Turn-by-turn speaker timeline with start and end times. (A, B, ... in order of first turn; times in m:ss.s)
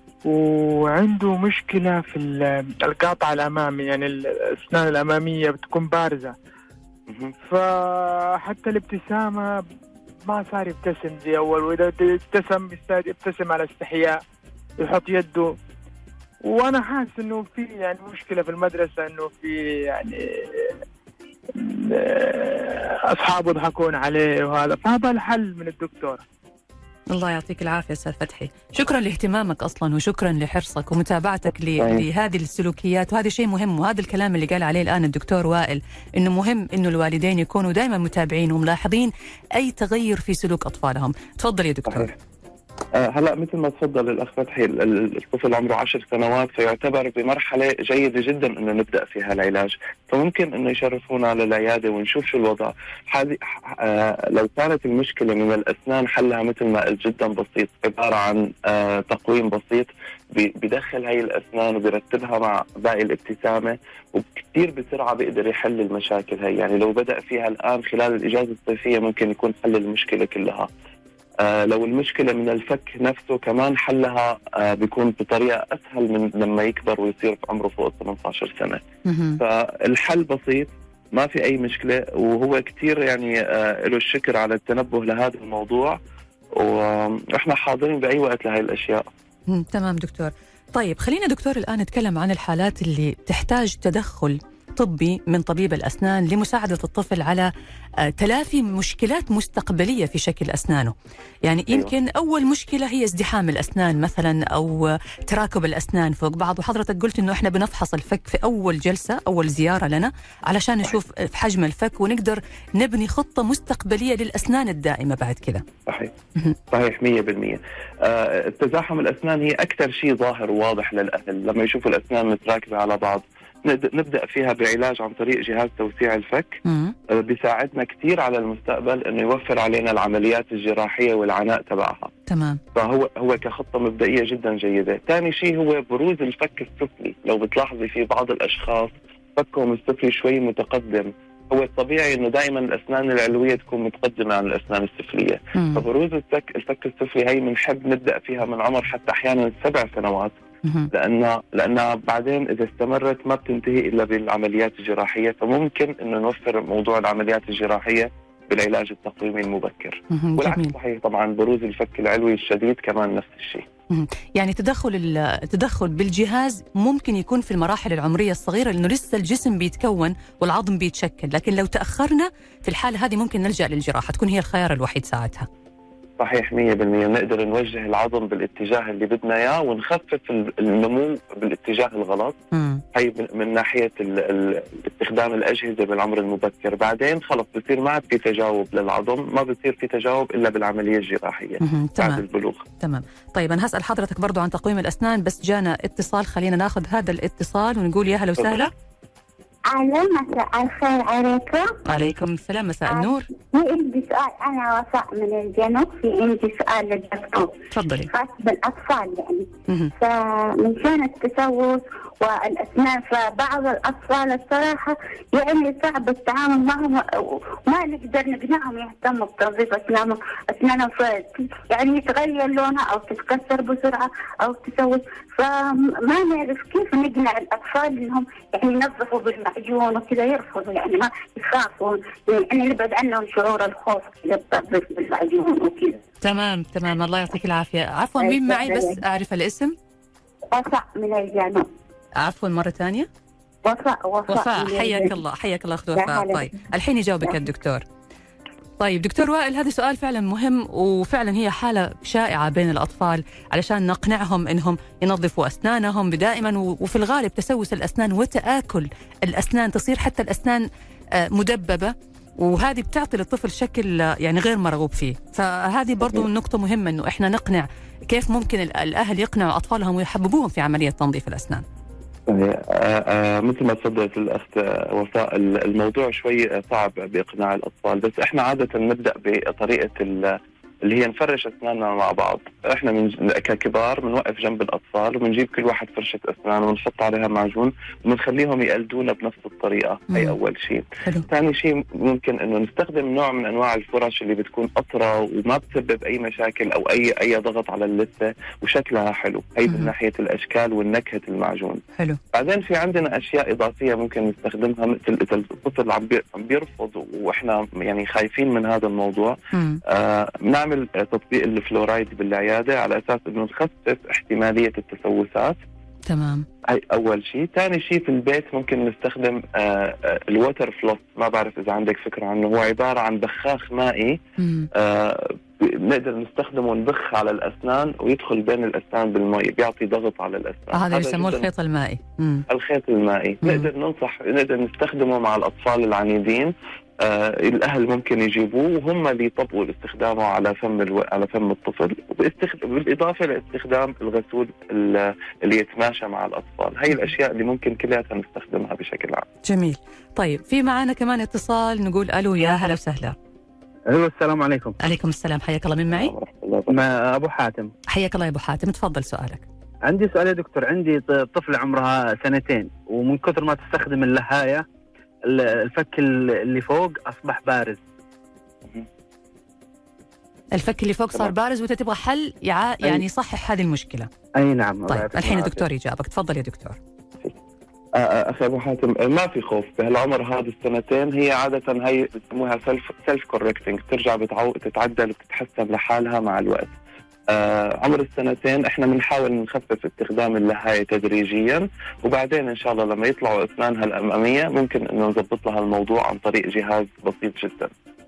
0:00.2-0:06.4 A
0:07.1-0:07.3 B
0:07.4-0:09.6 A
0:10.2-0:14.2 A
0:14.8-0:15.6 A
0:16.4-0:20.8 A
0:21.5-0:26.2 A
0:27.1-0:42.1 C
0:31.8-0:32.1 B
0:41.9-0:42.1 B
0:42.9-1:10.7 B
1:11.4-1:18.8 B
1:19.0-1:19.4 C
1:19.4-1:26.0 B
1:26.6-1:29.1 B
1:29.5-1:37.5 C
1:38.0-1:40.9 C
1:41.4-1:55.6 C
1:55.9-1:56.1 B
1:56.7-2:12.1 B
2:06.6-2:07.0 C
2:12.3-2:12.6 C
2:12.8-2:30.4 B
2:25.5-2:25.8 C
2:30.6-2:30.9 C
2:30.9-2:43.7 B
2:40.1-2:40.7 C
2:43.9-2:55.5 C
2:56.2-3:02.4 B
3:02.5-3:02.8 C
3:02.9-3:12.6 B
3:11.6-3:12.2 C
3:12.8-3:18.7 C
3:19.7-3:21.8 D
3:21.9-3:23.3 C
3:22.9-3:27.5 D
3:27.7-3:28.1 C
3:28.1-3:56.0 D
3:29.7-3:29.9 C
3:56.2-3:59.8 C
3:58.2-3:59.0 D
4:00.5-4:01.7 D
4:02.2-4:03.1 C
4:03.6-4:05.1 D
4:04.3-4:07.8 C
4:06.0-4:06.5 D
4:08.8-4:31.6 C
4:32.3-5:01.8 B
5:02.3-5:15.6 B
5:09.5-5:09.8 C
5:16.1-5:16.4 C
5:16.6-5:24.2 B
5:24.4-5:24.7 C
5:24.7-5:31.5 B
5:30.7-5:32.4 C
5:32.5-5:49.3 B
5:49.4-5:53.2 C
5:53.9-5:54.8 E
5:54.8-5:56.1 C
5:55.9-5:56.8 B
5:56.7-5:57.7 E
5:57.9-5:59.4 C
5:59.9-6:04.6 E
6:05.2-6:07.8 E
6:10.5-6:14.1 C
6:14.4-6:15.6 E
6:14.9-6:16.8 C
6:17.9-6:26.7 B
6:27.3-6:37.7 B